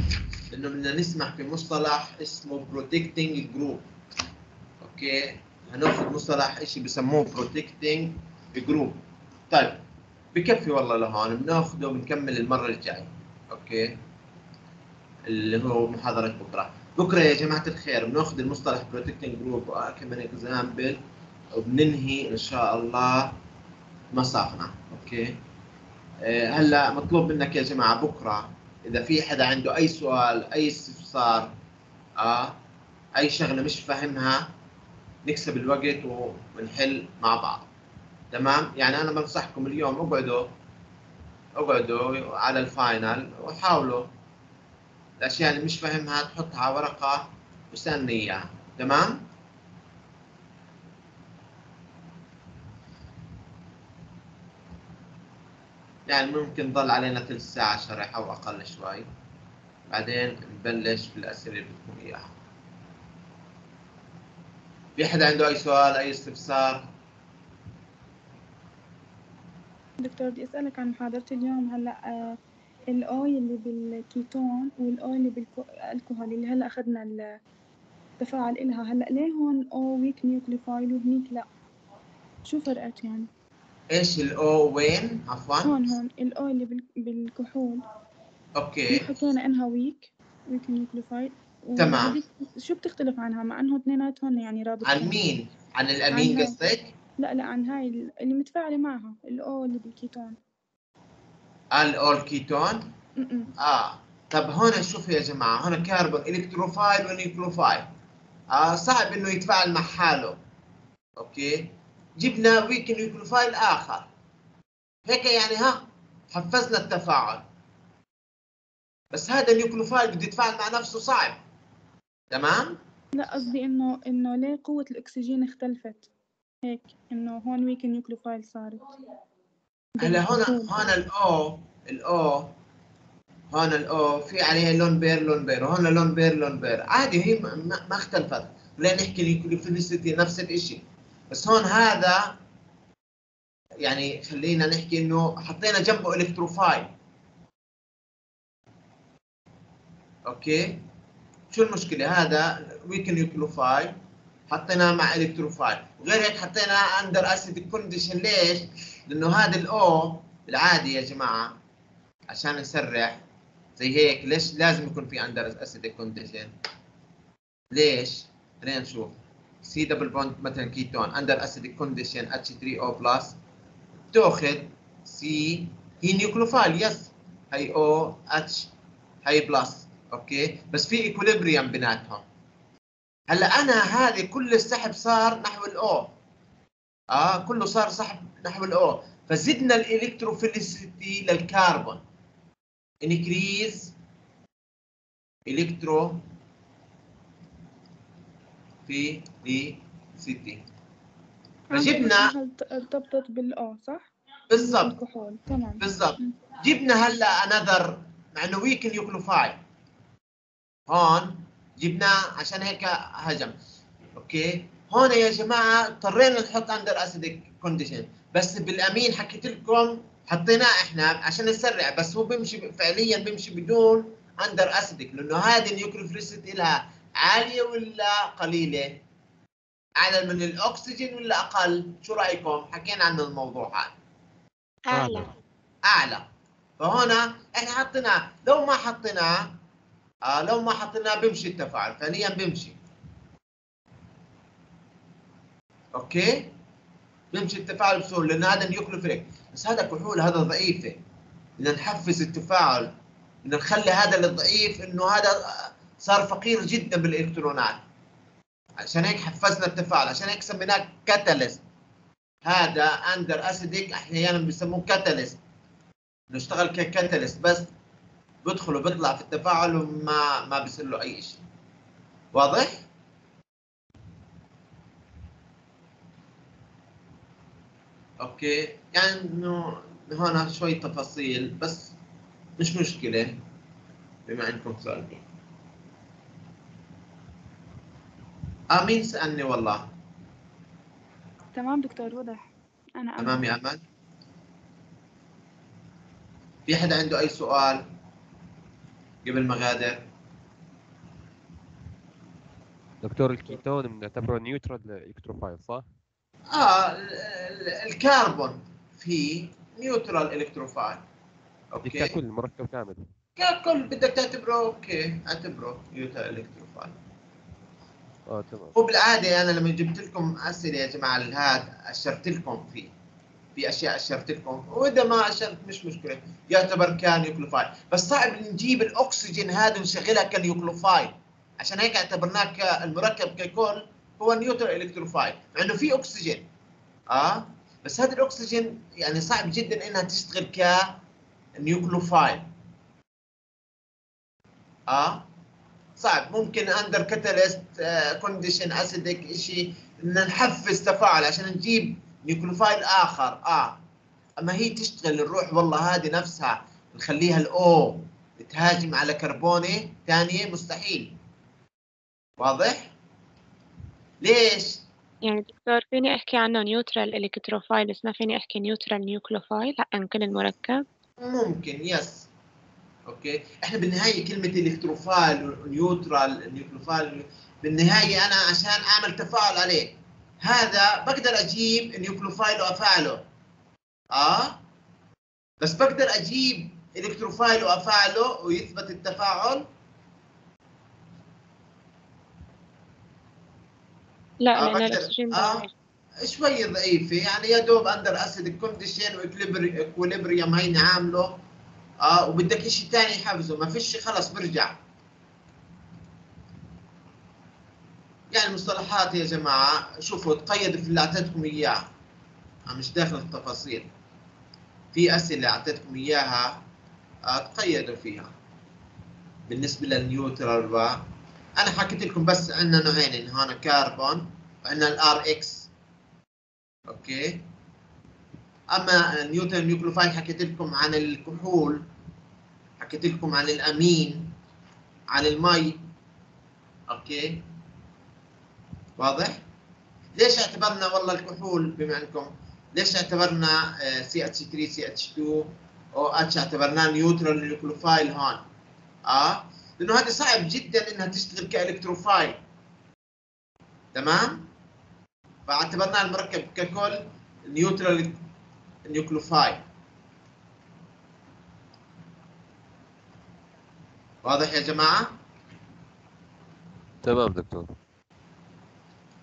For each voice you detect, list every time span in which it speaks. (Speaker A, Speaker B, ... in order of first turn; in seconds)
Speaker A: 0.5-3.9, 4.8-9.8, 10.3-13.9, 15.3-21.0, 21.5-23.4, 24.1-25.3, 26.2-31.5, 32.2-32.6, 33.1-34.5, 35.2-37.7, 38.3-40.5, 41.5-44.1, 45.2-49.2, 56.1-59.0, 59.9-62.3, 65.0-66.9, 83.9-85.9, 88.5-89.1, 91.8-92.2, 94.8-96.8, 101.7-102.8, 103.6-107.9, 108.5-110.4, 111.2-114.1, 115.1-117.4, 119.1-121.4, 122.3-122.8, 130.0-132.5, 133.5-142.3, 143.8-146.9, 150.2-150.8, 151.5-153.9, 154.5-161.5, 162.3-163.1, 163.8-166.5, 167.7-173.3, 174.1-178.7, 179.2-182.2, 183.3-186.1, 187.1-192.0, 193.0-193.9, 195.5-196.2, 198.9-200.6, 201.7-202.3, 204.5-204.9, 205.8-209.6, 210.9-213.5, 214.1-228.9, 230.0-233.9, 235.8-236.2, 236.8-239.6, 240.2-242.8, 245.9-246.5, 247.3-251.0, 251.6-252.9, 253.4-257.8, 258.8-261.6, 262.4-265.4, 266.3-267.7, 268.4-271.4, 272.3-272.7, 278.2-281.9, 282.6-283.3, 284.2-285.2, 288.7-289.8, 293.2-293.8, 296.7-297.8, 299.2-300.0, 306.5-311.0, 311.7-312.1, 313.4-316.9, 318.7-322.9, 323.6-336.4, 337.1-340.9, 341.6-342.4, 344.9-345.2, 346.0-353.8, 354.4-361.1, 362.4-362.9, 364.2-364.8, 371.2-372.3, 373.1-379.9, 380.4-383.2, 384.1-384.6, 385.6-389.6, 394.6-395.6, 396.2-401.4, 402.0-404.7, 408.3-411.8, 412.7-413.9, 414.9-416.6, 417.3-418.3, 419.5-421.0, 421.6-425.7, 426.9-427.4, 428.7-431.8, 432.8-434.4, 435.1-435.8, 436.9-437.4, 439.0-439.4, 440.1-448.4, 449.1-452.4, 453.9-454.5, 455.5-458.2, 458.9-459.6, 464.2-465.1
Speaker B: 70.0-72.4, 72.9-77.4, 78.2-81.5, 82.4-83.3, 85.6-87.8, 88.9-95.2, 96.1-100.4, 103.2-103.5, 123.1-126.1, 126.6-128.9, 130.0-130.9, 201.7-206.3, 291.5-293.6
Speaker C: 234.9-235.3, 365.2-370.8, 394.4-395.7
Speaker D: 234.9-235.3, 303.0-305.9, 311.8-313.1, 318.3-318.7, 467.0-467.7